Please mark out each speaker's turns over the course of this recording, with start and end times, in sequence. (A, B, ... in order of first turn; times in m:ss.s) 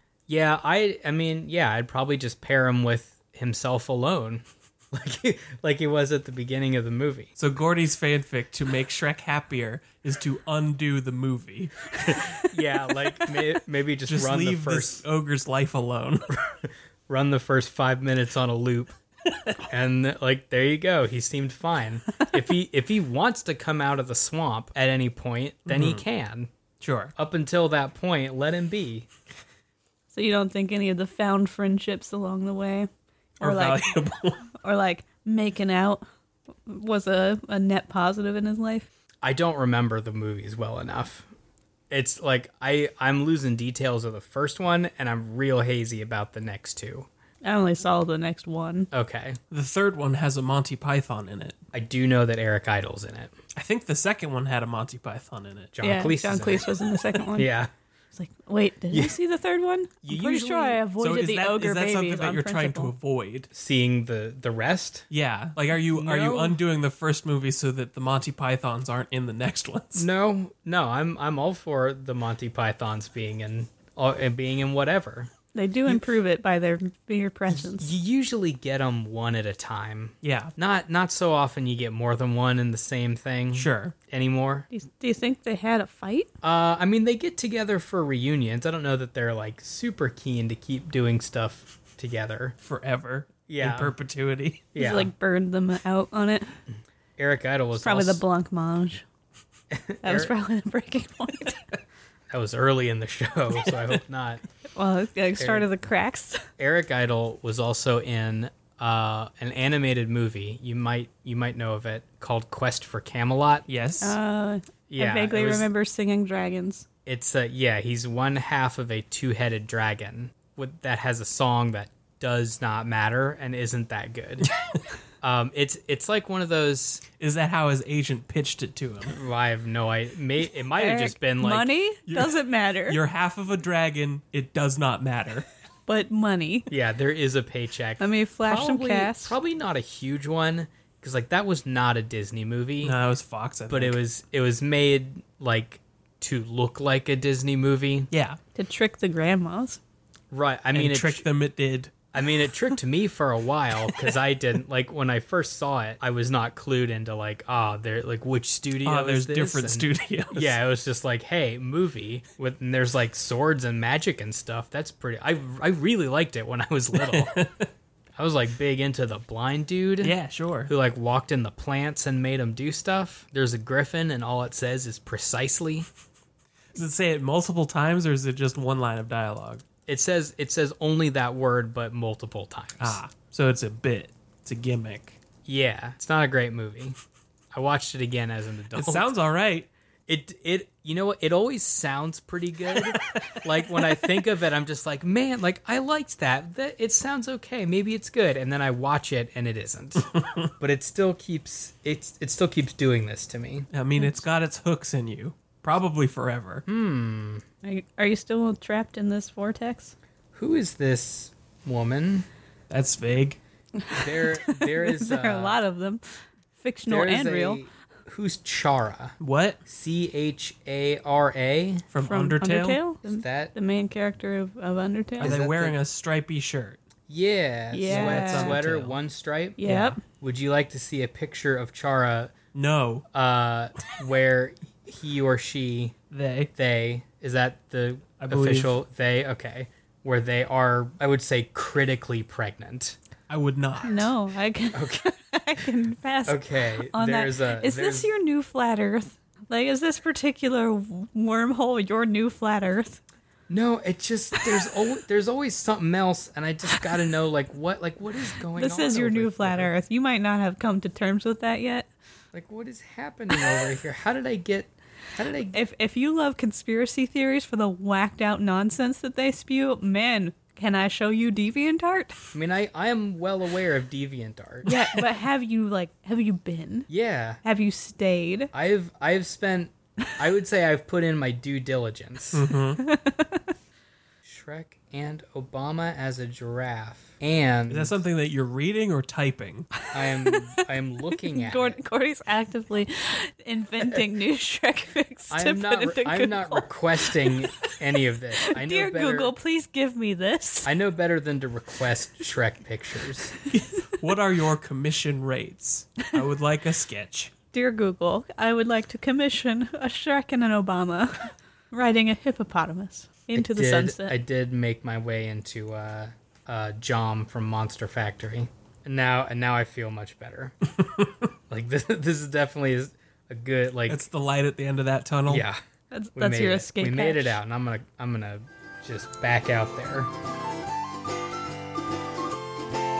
0:00.3-0:07.3 A
0:07.4-0:12.4 B
0:12.4-0:15.0 A
0:14.1-0:16.2 B
0:16.5-0:18.9 A
0:19.6-0:26.5 A
0:25.7-0:26.0 B
0:26.8-0:27.1 B
0:27.2-0:29.1 A
0:30.1-0:32.9 C
0:33.4-0:34.4 B
0:33.4-0:33.9 C
0:34.5-0:36.0 C
0:36.6-0:38.9 C
0:39.2-0:41.3 A
0:41.9-0:47.1 A
0:47.4-0:48.9 C
0:48.9-0:49.4 A
0:49.5-0:51.6 B
0:51.7-0:53.3 A
0:53.6-0:55.7 B
0:55.7-0:57.7 A
0:55.8-0:57.5 C
0:58.1-1:02.9 C
0:58.9-0:59.2 A
1:00.0-1:00.8 A
1:01.0-1:03.5 B
1:03.5-1:05.0 A
1:05.1-1:10.1 B
1:05.8-1:06.6 A
1:09.9-1:15.3 A
1:15.5-1:17.9 C
1:17.5-1:24.7 A
1:20.2-1:20.5 B
1:23.5-1:23.9 B
1:24.7-1:26.3 C
1:26.4-1:32.6 A
1:32.6-1:34.6 B
1:33.5-1:33.9 A
1:34.7-1:35.1 A
1:34.8-1:36.5 C
1:37.2-1:38.2 A
1:37.8-1:39.0 C
1:39.7-1:40.3 A
1:40.0-1:41.7 C
1:42.3-1:44.4 A
1:44.7-1:46.4 C
1:45.4-1:45.7 A
1:46.6-1:53.7 A
1:53.7-1:54.2 B
1:54.0-1:56.8 C
1:54.9-1:55.7 A
1:57.0-2:04.5 A
2:05.2-2:07.0 A
2:07.2-2:09.1 B
2:09.1-2:11.8 A
2:10.7-2:13.0 C
2:12.1-2:15.4 B
2:15.8-2:16.7 C
2:16.7-2:22.9 A
2:18.0-2:19.4 C
2:22.8-2:24.0 B
2:23.7-2:28.1 A
2:28.1-2:28.4 B
2:28.6-2:29.8 C
2:30.3-2:31.2 A
2:30.7-2:31.9 B
2:32.1-2:47.5 A
2:38.8-2:40.6 B
2:47.0-2:47.7 B
2:48.2-2:50.2 A
2:50.0-2:50.7 B
2:50.7-2:55.8 A
2:56.7-2:59.6 B
2:59.9-3:03.0 A
3:02.8-3:05.2 B
3:05.4-3:07.0 A
3:07.5-3:09.1 A
3:08.7-3:09.7 B
3:10.1-3:23.7 A
3:12.7-3:13.4 B
3:23.7-3:26.6 B
3:26.7-3:27.4 A
3:27.6-3:29.9 C
3:30.3-3:32.2 A
3:32.7-3:33.4 B
3:33.8-3:36.0 C
3:33.9-3:35.6 A
3:36.6-3:37.6 C
3:36.9-3:39.1 A
3:39.2-3:39.6 B
3:39.6-3:41.8 A
3:41.9-3:42.8 B
3:42.0-3:45.4 C
3:43.0-3:43.5 A
3:45.2-3:45.8 A
3:45.2-3:46.8 B
3:47.1-3:52.3 A
3:47.7-3:48.6 C
3:47.8-3:49.0 B
3:49.6-3:50.0 C
3:52.5-3:53.0 B
3:53.1-3:55.9 A
3:56.1-3:56.5 B
3:56.5-4:03.0 A
3:58.2-3:58.8 B
4:03.3-4:04.1 B
4:03.8-4:13.0 C
4:04.7-4:05.1 A
4:06.2-4:08.1 A
4:13.5-4:19.7 A
4:18.5-4:21.9 C
4:22.3-4:25.6 A
4:25.5-4:32.2 C
4:32.3-4:34.7 A
4:34.6-4:36.9 C
4:36.9-4:37.4 A
4:37.4-4:38.5 C
4:38.5-4:42.4 A
4:42.3-4:42.8 B
4:42.8-4:43.4 C
4:44.2-4:47.9 A
4:47.7-4:49.7 B
4:49.9-4:51.8 A
4:51.2-4:56.6 C
4:55.3-4:59.3 A
4:58.4-5:00.7 C
5:00.6-5:03.3 A
5:03.5-5:07.3 B
5:07.5-5:14.2 C
5:13.3-5:20.5 A
5:21.5-5:24.0 A
5:23.9-5:25.4 B
5:25.2-5:25.6 A
5:25.9-5:27.4 C
5:26.2-5:30.1 A